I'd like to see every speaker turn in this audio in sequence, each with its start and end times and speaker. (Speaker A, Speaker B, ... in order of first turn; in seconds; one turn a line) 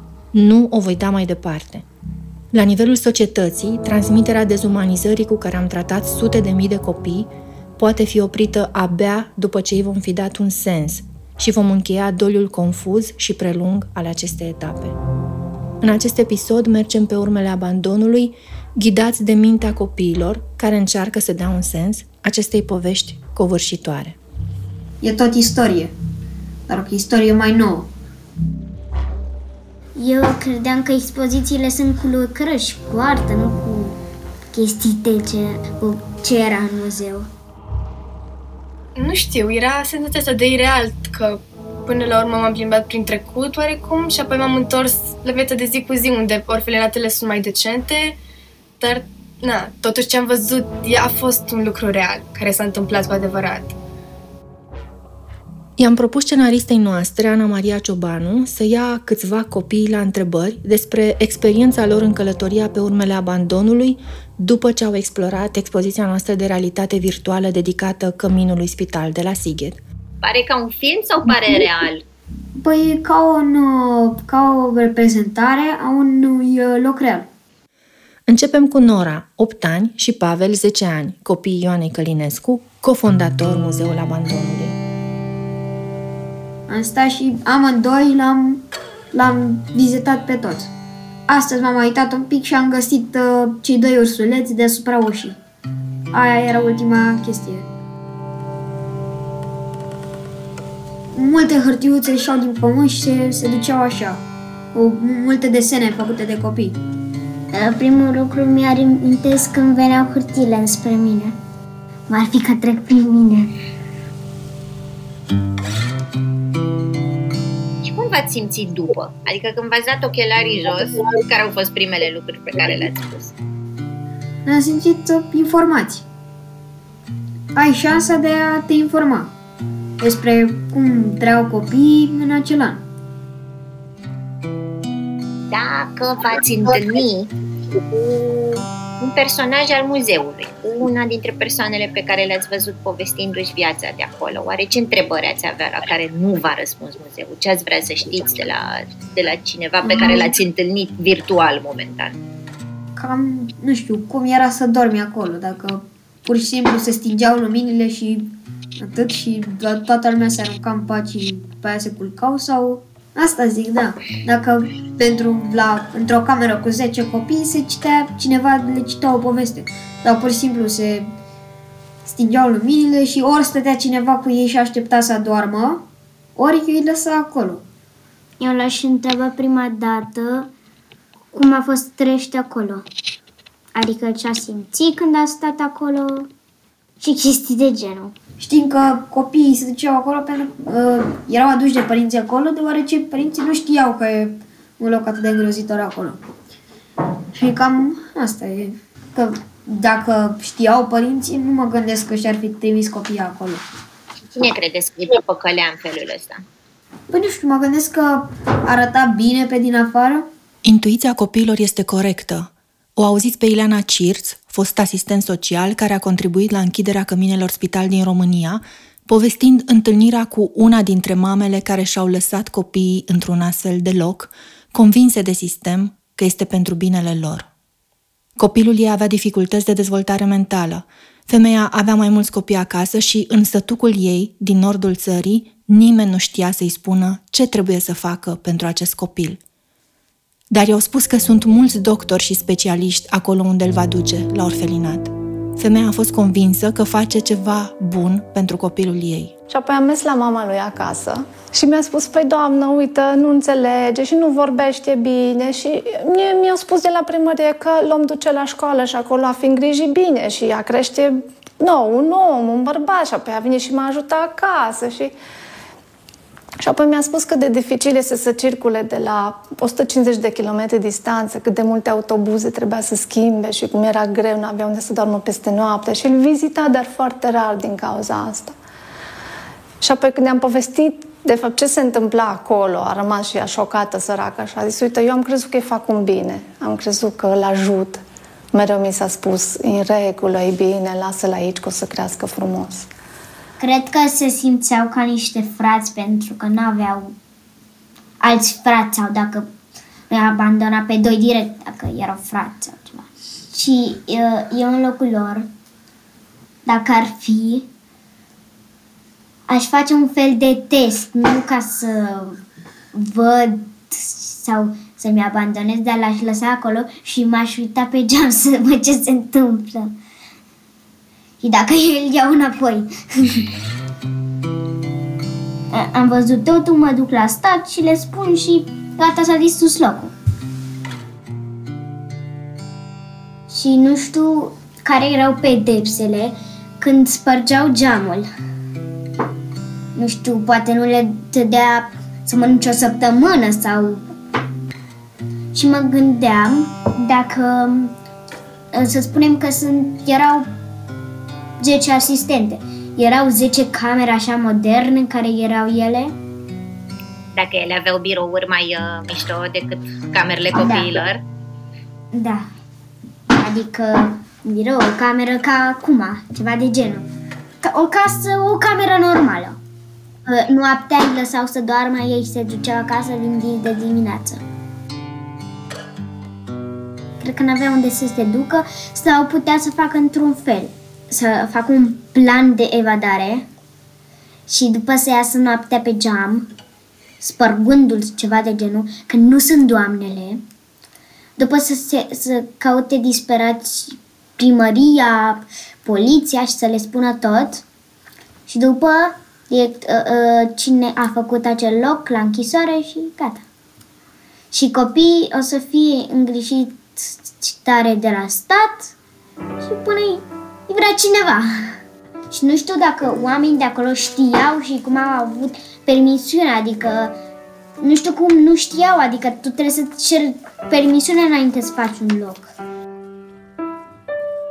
Speaker A: 0.3-1.9
Speaker A: 2.5-15.0
Speaker A: 15.8-24.2
Speaker B: 25.0-25.9
Speaker B: 26.7-27.9
Speaker C: 30.0-34.0
Speaker C: 34.5-37.3
Speaker D: 39.0-48.2
Speaker D: 48.8-53.8
Speaker A: 55.8-69.8
Speaker E: 70.2-72.0
Speaker B: 72.6-77.3
Speaker A: 78.3-84.8
Speaker B: 86.7-90.7
Speaker B: 91.3-95.4
Speaker B: 96.1-97.7
Speaker B: 101.1-104.2
Speaker B: 104.7-106.8
Speaker C: 107.5-111.4
Speaker C: 112.1-113.5
Speaker E: 117.8-123.3
Speaker B: 124.5-126.0
Speaker B: 127.5-129.3
Speaker B: 130.0-132.8
Speaker E: 135.5-152.2
Speaker B: 153.0-171.1
Speaker B: 172.1-177.7
Speaker C: 178.4-180.5
Speaker C: 181.3-182.8
Speaker C: 183.8-186.3
Speaker C: 187.0-188.1
Speaker B: 188.4-196.2
Speaker B: 197.3-203.6
Speaker E: 204.3-206.4
Speaker B: 207.1-210.3
Speaker A: 210.6-227.5
Speaker A: 228.4-239.4
Speaker A: 240.5-249.3
Speaker F: 249.5-265.1
Speaker F: 266.6-278.6
Speaker F: 279.8-288.0
Speaker F: 288.5-292.9
Speaker C: 293.6-297.2
Speaker C: 298.2-299.5
Speaker C: 300.1-305.5
Speaker C: 306.7-307.7
Speaker C: 309.5-312.4
Speaker C: 312.9-319.9
Speaker C: 321.4-323.5
Speaker C: 325.7-330.1
Speaker C: 333.5-338.3
Speaker C: 339.9-344.1
Speaker C: 345.5-347.9
Speaker C: 348.7-350.5
Speaker C: 351.6-356.1
Speaker E: 357.4-361.2
Speaker C: 360.5-361.1
Speaker C: 362.1-362.5
Speaker C: 363.3-367.1
Speaker C: 367.6-369.6
Speaker C: 370.3-374.4
Speaker C: 377.2-383.5
Speaker C: 384.5-386.5
Speaker C: 387.2-390.4
Speaker C: 391.4-397.6
Speaker C: 398.5-403.4
Speaker C: 404.5-408.9
Speaker C: 409.6-411.8
Speaker C: 412.3-417.2
Speaker C: 417.8-422.5